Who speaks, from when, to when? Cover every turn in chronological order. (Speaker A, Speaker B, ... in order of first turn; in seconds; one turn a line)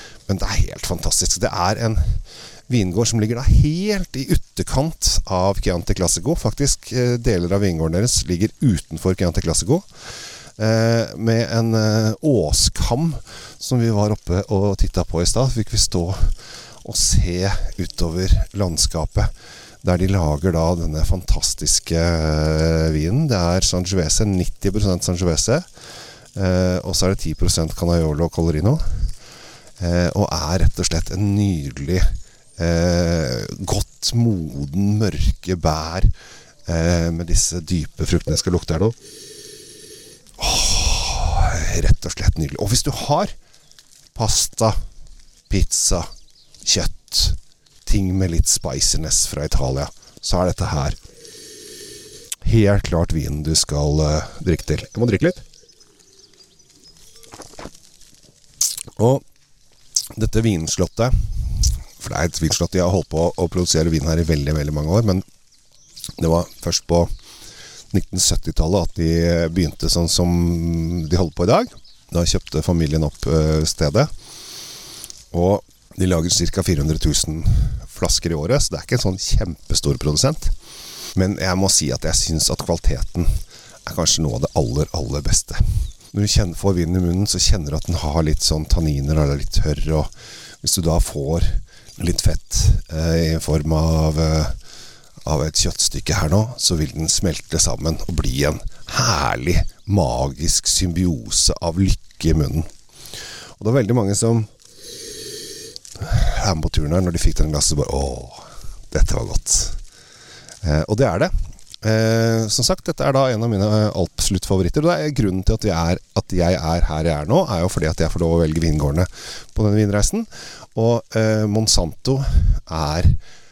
Speaker A: 0.3-9.8
Speaker A: 10.6-19.3
Speaker A: 19.8-25.6
Speaker A: 26.3-29.1
Speaker A: 29.8-36.1
Speaker A: 36.6-39.0
Speaker A: 40.4-43.3
Speaker A: 44.1-44.8
Speaker A: 45.5-46.1
Speaker A: 46.6-51.0
Speaker A: 52.4-55.4
Speaker A: 59.0-59.2
Speaker A: 60.1-65.2
Speaker A: 66.2-67.1
Speaker A: 67.9-74.1
Speaker A: 75.3-80.5
Speaker A: 81.1-90.1
Speaker A: 90.6-94.5
Speaker A: 95.2-102.7
Speaker A: 103.6-104.5
Speaker A: 106.0-109.8
Speaker A: 110.6-123.2